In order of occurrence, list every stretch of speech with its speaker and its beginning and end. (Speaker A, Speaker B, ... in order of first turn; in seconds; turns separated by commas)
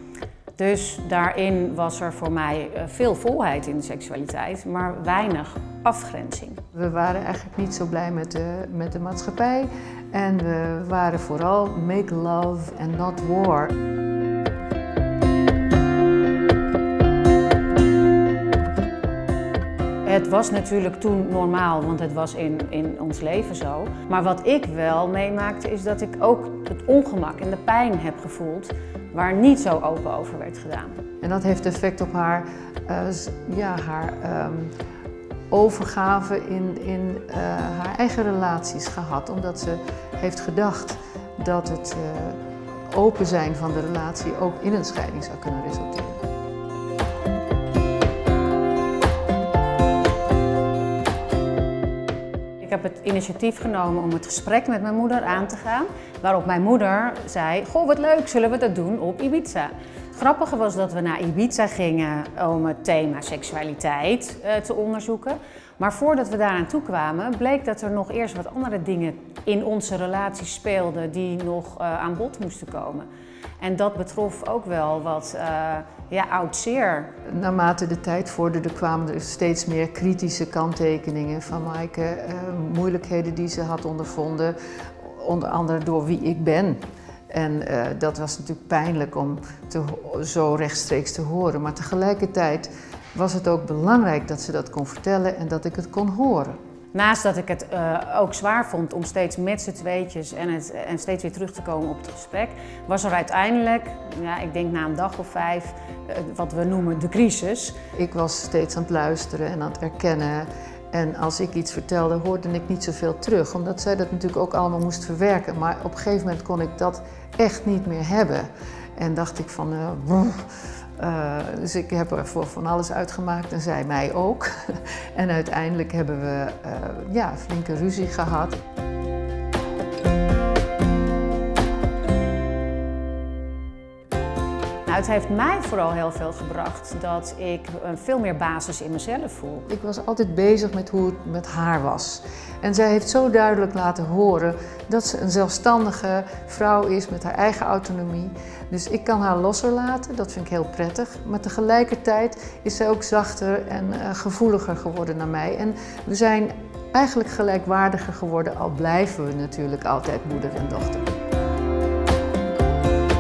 Speaker A: 0.6-6.6, Speaker B: 6.7-13.7, Speaker A: 20.1-31.0, Speaker B: 31.2-34.7, Speaker B: 35.5-42.4, Speaker B: 42.9-46.2, Speaker A: 52.6-73.1, Speaker A: 73.6-77.1, Speaker B: 77.3-86.8, Speaker B: 87.3-96.6, Speaker A: 96.9-107.8, Speaker B: 108.0-124.5, Speaker B: 125.2-128.6, Speaker A: 134.9-139.7, Speaker B: 139.7-161.1